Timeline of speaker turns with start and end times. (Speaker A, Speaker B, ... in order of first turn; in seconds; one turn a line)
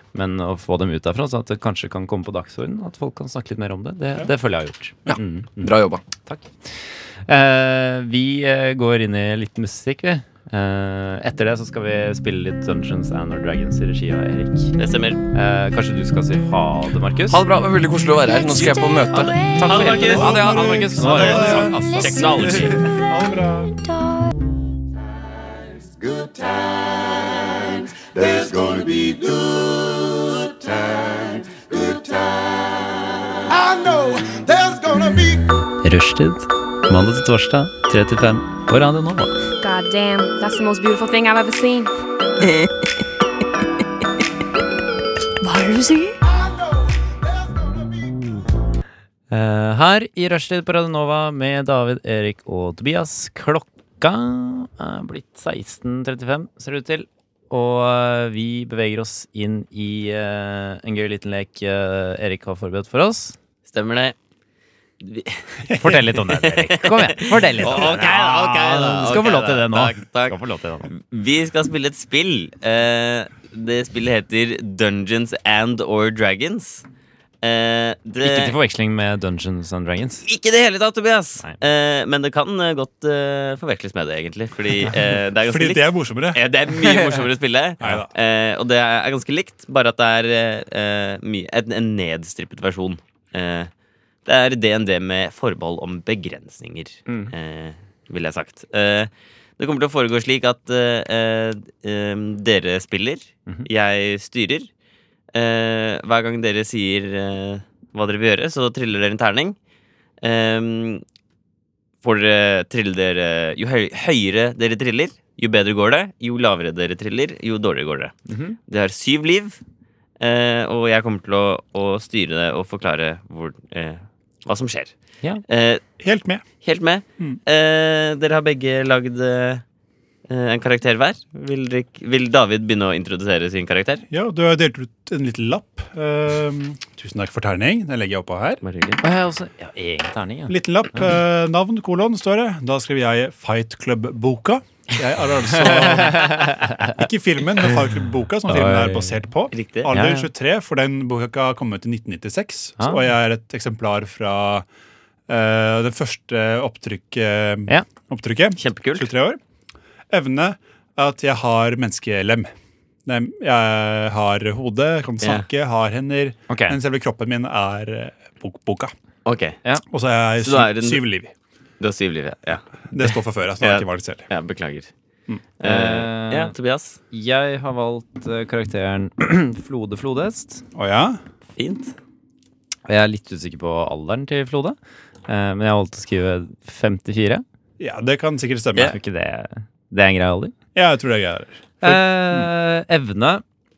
Speaker A: 0.1-14.8
Speaker B: 5.1-6.0
Speaker C: 14.8-15.2
Speaker A: 15.3-17.4
Speaker B: 17.3-21.4
Speaker C: 19.1-20.4
Speaker A: 19.6-22.7
Speaker D: 19.9-23.9
Speaker C: 21.1-22.8
Speaker B: 28.4-28.7
Speaker A: 34.9-39.4
Speaker E: 39.6-41.9
Speaker E: 45.4-46.1
Speaker A: 49.3-63.4
Speaker C: 63.7-64.1
Speaker C: 65.0-76.8
Speaker D: 65.7-66.0
Speaker A: 65.8-70.9
Speaker C: 77.4-78.5
Speaker A: 78.2-80.2
Speaker C: 80.2-93.7
Speaker D: 85.4-86.4
Speaker D: 87.8-88.1
Speaker C: 94.2-104.7
Speaker A: 97.1-97.3
Speaker C: 105.3-109.5
Speaker C: 110.2-111.0
Speaker C: 112.0-118.2
Speaker A: 118.3-118.6
Speaker C: 118.7-119.6
Speaker C: 120.2-124.9
Speaker C: 125.5-125.8
Speaker D: 126.0-126.4
Speaker C: 126.6-129.6
Speaker C: 130.3-134.0
Speaker D: 134.1-138.6
Speaker C: 138.6-139.0
Speaker A: 139.0-141.1
Speaker D: 140.5-154.7
Speaker A: 145.7-146.9
Speaker A: 148.5-149.2
Speaker C: 149.5-150.0
Speaker A: 149.9-150.3
Speaker A: 152.8-153.0
Speaker D: 155.3-159.4
Speaker C: 158.6-159.1
Speaker D: 160.1-162.5
Speaker D: 163.1-168.9
Speaker A: 166.5-166.8
Speaker C: 169.2-169.6
Speaker D: 169.9-171.3
Speaker C: 170.4-171.0
Speaker C: 171.8-173.1
Speaker D: 172.9-174.3
Speaker C: 173.6-174.9
Speaker C: 175.6-177.0
Speaker A: 175.6-176.5
Speaker A: 177.1-180.6
Speaker D: 180.7-181.2
Speaker C: 181.6-181.9
Speaker A: 182.9-184.8
Speaker A: 185.3-187.4
Speaker D: 187.8-188.9
Speaker A: 188.8-190.5
Speaker D: 190.7-192.5
Speaker A: 191.8-193.4